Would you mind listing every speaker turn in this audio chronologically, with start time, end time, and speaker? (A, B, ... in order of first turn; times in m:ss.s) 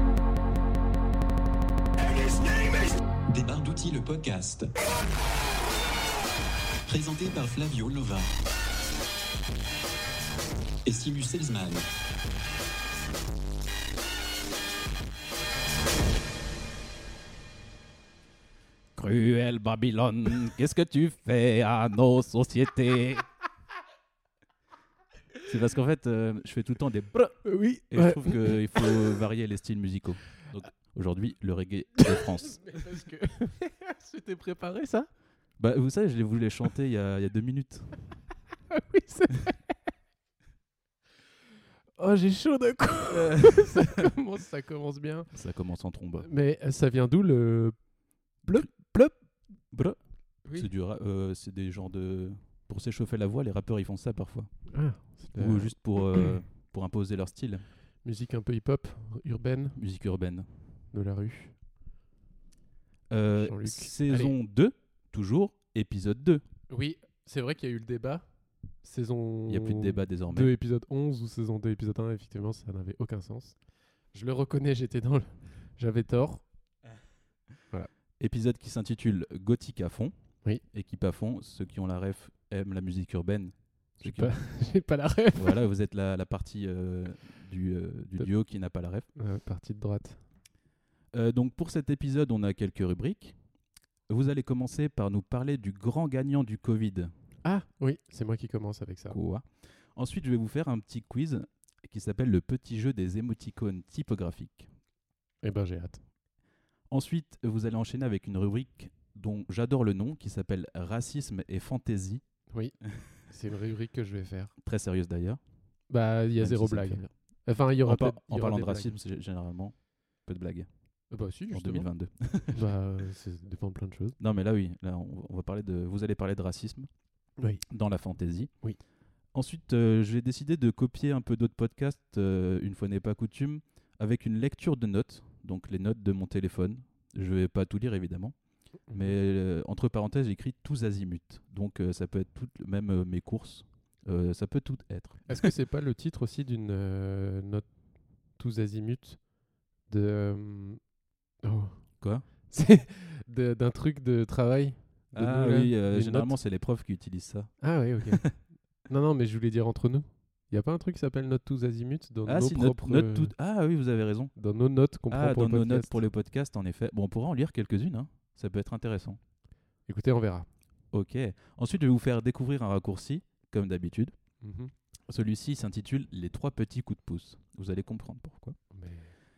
0:03.3-0:04.7 A
0:06.8-0:08.3 A
0:10.8-0:11.9 A
0:19.0-0:23.3 B
0:25.4-0:32.6 B
0:27.4-0:29.0 C
0:32.0-0:35.1 C
0:35.6-0:38.0 B
0:38.7-0:39.7 C
0:42.0-0:45.3 C
0:43.1-0:44.1 B
0:45.3-0:46.3 B
0:46.2-0:47.8 C
0:48.4-0:49.1 C
0:48.5-0:48.9 B
0:49.7-0:50.0 B
0:50.4-0:50.7 C
0:50.5-0:54.5 B
0:54.7-0:56.4 C
0:55.4-0:57.6 B
0:58.0-0:59.8 C
0:59.8-1:00.5 B
1:00.9-1:01.6 C
1:03.1-1:06.4 B
1:03.4-1:04.4 C
1:06.7-1:08.2 C
1:08.8-1:13.6 C
1:09.5-1:10.5 B
1:14.1-1:16.4 C
1:18.2-1:20.1 B
1:20.6-1:24.3 B
1:24.0-1:25.6 C
1:25.3-1:29.1 B
1:29.1-1:30.2 C
1:31.1-1:33.4 B
1:34.1-1:37.1 B
1:37.4-1:39.2 C
1:39.1-1:44.7 B
1:45.4-1:46.0 C
1:46.9-1:52.2 B
1:52.5-1:54.5 C
1:54.6-1:55.4 B
1:55.9-1:59.0 C
1:56.4-1:57.1 B
1:57.8-2:00.7 B
2:01.1-2:04.2 C
2:01.5-2:02.7 B
2:04.2-2:06.9 B
2:07.4-2:07.6 C
2:07.7-2:08.5 B
2:09.3-2:18.3 B
2:18.9-2:19.1 C
2:18.9-2:25.5 B
2:25.3-2:27.6 C
2:28.4-2:29.2 C
2:29.9-2:30.8 C
2:31.4-2:31.8 C
2:32.5-2:36.4 C
2:35.1-2:37.6 B
2:37.6-2:43.3 C
2:42.2-2:44.3 B
2:44.4-2:46.0 C
2:45.1-2:49.2 B
2:49.9-2:50.5 C
2:50.9-2:54.1 B
2:54.4-2:54.7 C
2:55.1-2:58.6 B
2:58.7-2:59.2 C